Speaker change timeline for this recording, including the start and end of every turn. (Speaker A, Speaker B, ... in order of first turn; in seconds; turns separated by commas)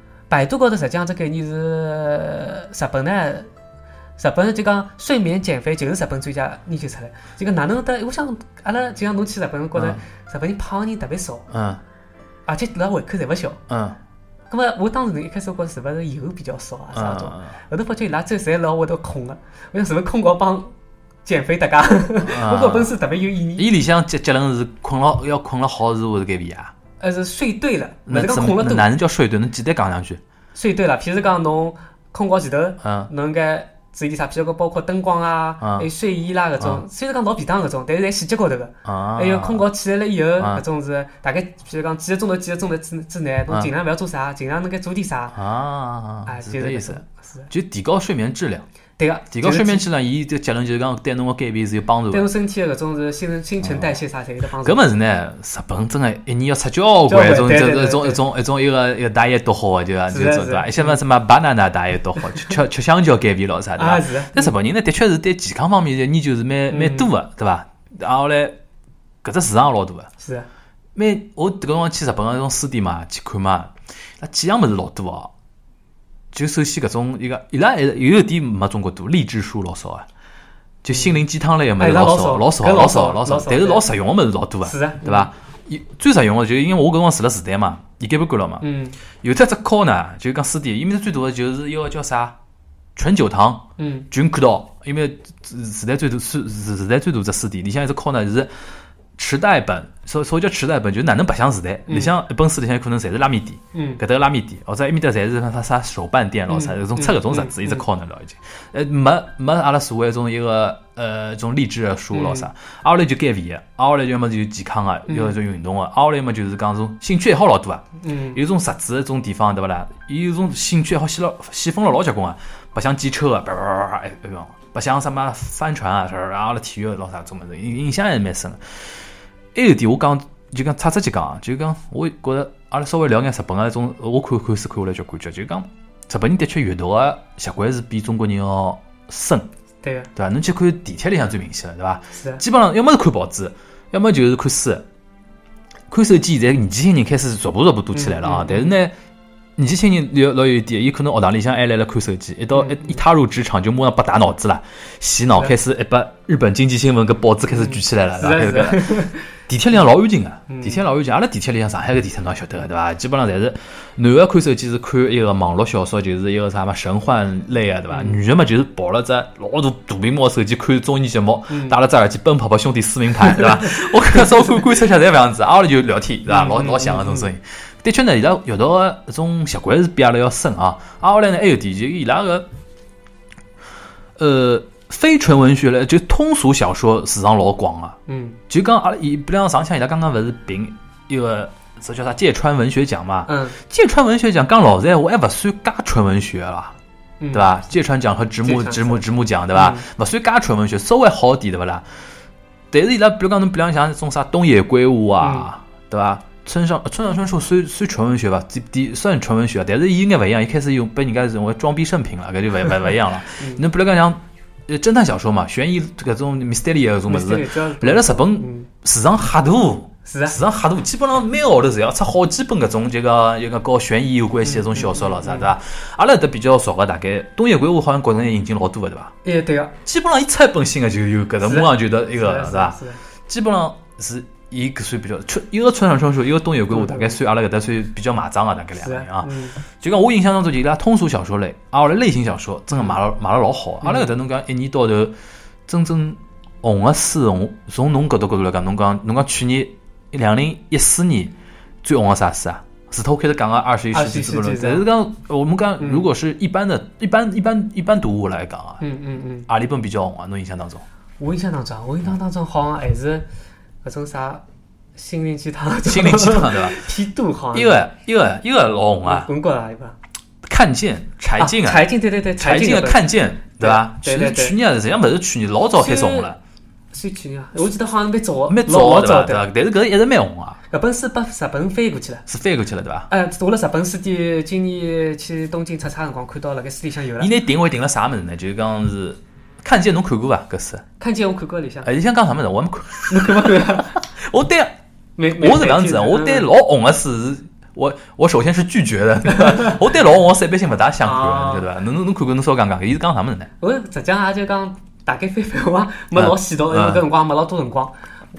Speaker A: 0.3-3.5, Speaker A: 4.2-11.5, Speaker B: 9.8-10.0, Speaker B: 11.5-11.8, Speaker A: 12.4-13.6, Speaker B: 13.7-14.0, Speaker A: 14.5-20.7, Speaker B: 16.9-17.6, Speaker A: 21.2-23.6, Speaker B: 22.2-22.9, Speaker B: 23.6-26.7, Speaker A: 27.0-28.9, Speaker B: 28.1-30.2, Speaker A: 30.6-45.4, Speaker B: 32.8-33.1, Speaker B: 35.6-35.9, Speaker B: 38.9-39.6, Speaker B: 45.4-48.6, Speaker A: 46.3-47.5, Speaker A: 49.0-49.8, Speaker B: 49.3-52.3, Speaker A: 52.1-54.8, Speaker B: 53.6-53.9, Speaker B: 54.6-68.6, Speaker A: 57.1-58.2, Speaker A: 60.1-61.0, Speaker A: 63.8-64.5, Speaker A: 66.7-67.1, Speaker B: 69.2-70.1, Speaker A: 70.2-70.5, Speaker B: 70.9-75.3, Speaker B: 76.3-80.1, Speaker B: 80.8-88.6, Speaker A: 80.9-81.2, Speaker A: 81.8-83.9, Speaker A: 84.6-85.3, Speaker A: 88.6-89.0, Speaker B: 89.2-92.4, Speaker B: 93.0-98.5, Speaker A: 93.8-94.1, Speaker B: 99.2-128.8, Speaker A: 101.9-102.1, Speaker A: 103.7-104.0, Speaker A: 106.5-107.8, Speaker A: 112.1-112.5, Speaker A: 115.1-115.4, Speaker A: 118.0-118.4, Speaker B: 129.6-139.5, Speaker A: 139.8-140.1, Speaker B: 140.2-144.8, Speaker A: 142.1-142.4, Speaker B: 145.9-148.9, Speaker A: 147.9-148.8, Speaker B: 149.6-182.5, Speaker A: 152.5-153.0, Speaker A: 157.5-159.4, Speaker A: 160.5-160.8, Speaker A: 167.9-168.2, Speaker A: 171.5-171.8, Speaker A: 176.3-177.3, Speaker B: 184.2-188.0, Speaker A: 188.1-188.4, Speaker B: 188.5-196.8, Speaker A: 193.3-193.6, Speaker A: 197.2-197.5, Speaker B: 197.3-201.9, Speaker A: 198.4-199.9, Speaker B: 202.7-229.1, Speaker A: 205.2-205.5, Speaker A: 213.4-213.6, Speaker A: 217.1-218.7, Speaker A: 220.1-220.4, Speaker A: 224.4-225.5, Speaker A: 229.2-229.7, Speaker B: 229.8-245.1, Speaker A: 231.4-233.0, Speaker A: 236.7-237.2, Speaker A: 238.8-239.6, Speaker A: 242.7-242.9, Speaker A: 243.8-244.1, Speaker B: 245.7-258.8, Speaker A: 253.9-254.9, Speaker A: 255.8-256.1, Speaker A: 258.8-259.5, Speaker B: 259.5-260.8, Speaker A: 261.2-263.3, Speaker A: 263.8-264.4, Speaker A: 264.9-267.8, Speaker B: 265.9-266.8, Speaker B: 267.5-269.3, Speaker A: 269.0-269.9, Speaker B: 270.4-276.4, Speaker A: 271.4-274.6, Speaker A: 275.8-276.3, Speaker A: 276.9-279.5, Speaker B: 278.5-280.6, Speaker A: 280.7-282.2, Speaker B: 282.3-283.1, Speaker A: 283.1-287.3, Speaker B: 287.2-290.9, Speaker A: 291.0-291.9, Speaker B: 291.8-294.8, Speaker A: 293.1-294.0, Speaker A: 295.2-296.5, Speaker B: 295.3-303.5, Speaker A: 299.3-299.8, Speaker A: 301.0-301.7, Speaker A: 303.6-307.9, Speaker B: 306.1-307.0